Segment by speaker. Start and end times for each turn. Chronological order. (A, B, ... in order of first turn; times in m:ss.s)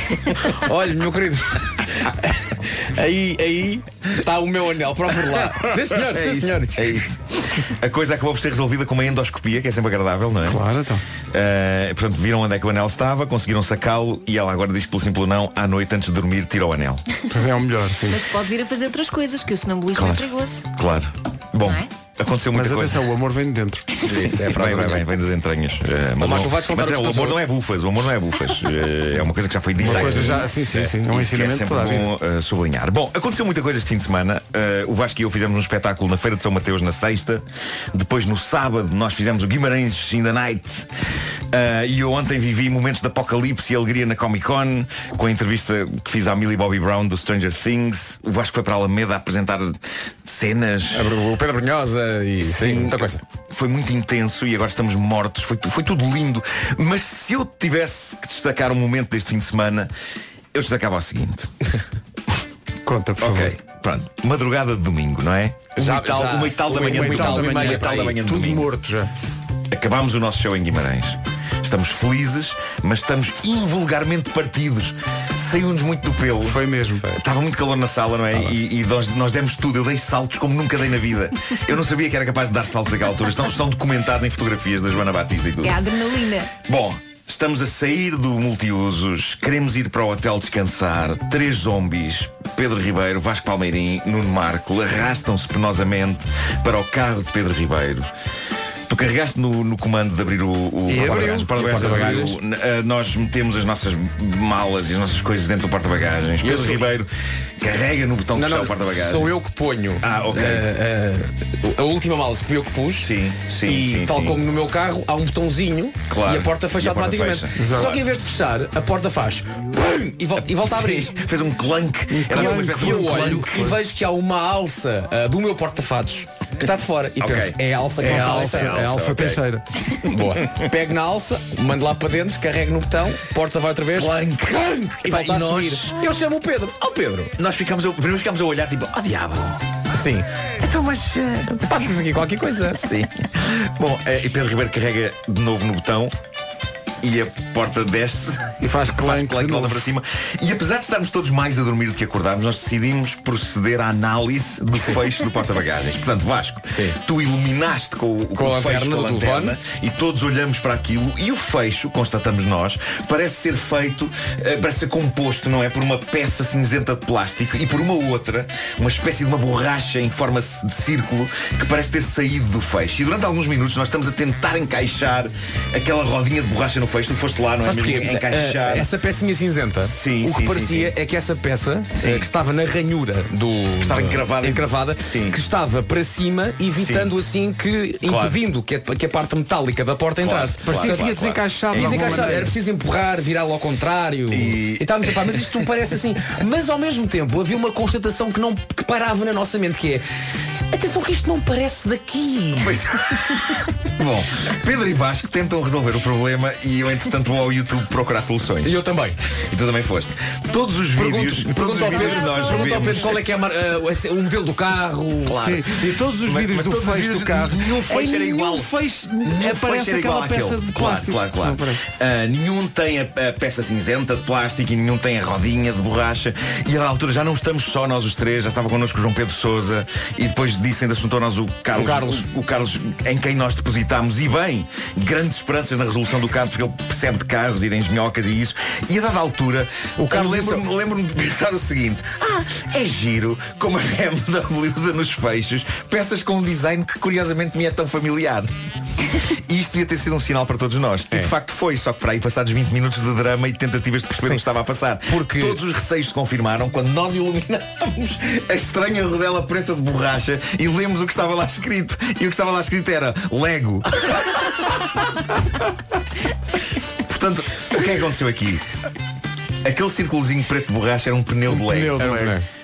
0:00.3-0:07.0 A
0:05.6-0:10.6 B
0:10.4-0:11.0 C
0:11.3-0:17.0 B
0:17.3-0:18.2 C
0:18.1-0:20.7 D
0:19.9-0:23.0 B
0:21.6-0:21.9 D
0:22.5-0:23.9 C
0:24.0-0:25.1 A
0:24.2-0:40.9 B
0:26.2-0:27.4 A
0:29.8-0:32.1 C
0:29.8-0:30.9 A
0:41.5-0:51.1 B
0:50.9-0:53.2 A
0:52.4-0:59.9 B
1:00.5-1:01.5 B
1:02.8-1:03.5 C
1:03.2-1:08.7 B
1:05.8-1:08.2 A
1:06.7-1:09.1 C
1:09.7-1:16.6 B
1:16.4-1:17.0 C
1:17.1-1:25.8 B
1:25.6-1:26.6 D
1:26.6-1:38.1 B
1:38.9-1:47.1 B
1:40.9-1:42.3 C
1:41.3-1:42.3 A
1:46.4-1:46.9 A
1:47.6-1:49.4 B
1:48.3-2:01.2 A
1:50.0-1:50.7 B
1:53.0-1:54.4 B
1:56.1-1:58.0 B
1:57.6-1:58.0 C
2:00.3-2:03.5 B
2:02.1-2:03.8 C
2:02.3-2:09.0 A
2:07.2-2:09.4 B
2:08.0-2:09.6 C
2:10.1-2:17.3 A
2:13.9-2:15.9 B
2:17.4-2:19.6 B
2:19.9-2:20.3 A
2:20.6-2:21.7 B
2:21.6-2:22.9 A
2:22.7-2:26.1 B
2:27.0-2:58.9 B
2:28.6-2:29.8 C
2:34.7-2:35.0 A
2:36.7-2:37.0 A
2:38.3-2:39.6 A
2:57.6-3:20.0 A
2:59.8-3:00.9 B
3:02.0-3:02.3 B
3:03.8-3:05.4 B
3:06.7-3:07.1 B
3:08.0-3:08.4 B
3:10.2-3:12.5 B
3:10.6-3:12.6 C
3:14.3-3:15.4 B
3:20.7-3:22.8 A
3:22.6-3:23.4 B
3:24.0-3:28.8 B
3:28.6-3:29.2 A
3:29.5-3:33.2 B
3:31.0-3:35.6 A
3:31.9-3:33.2 D
3:35.3-3:41.8 C
3:35.3-3:35.6 B
3:36.2-3:38.7 B
3:39.2-4:08.5 B
3:51.7-3:52.3 A
4:00.0-4:00.7 A
4:09.5-4:24.1 B
4:14.2-4:14.4 A
4:15.0-4:15.6 A
4:27.0-4:28.6 B
4:29.6-4:32.2 B
4:31.5-4:32.4 C
4:32.0-4:32.4 A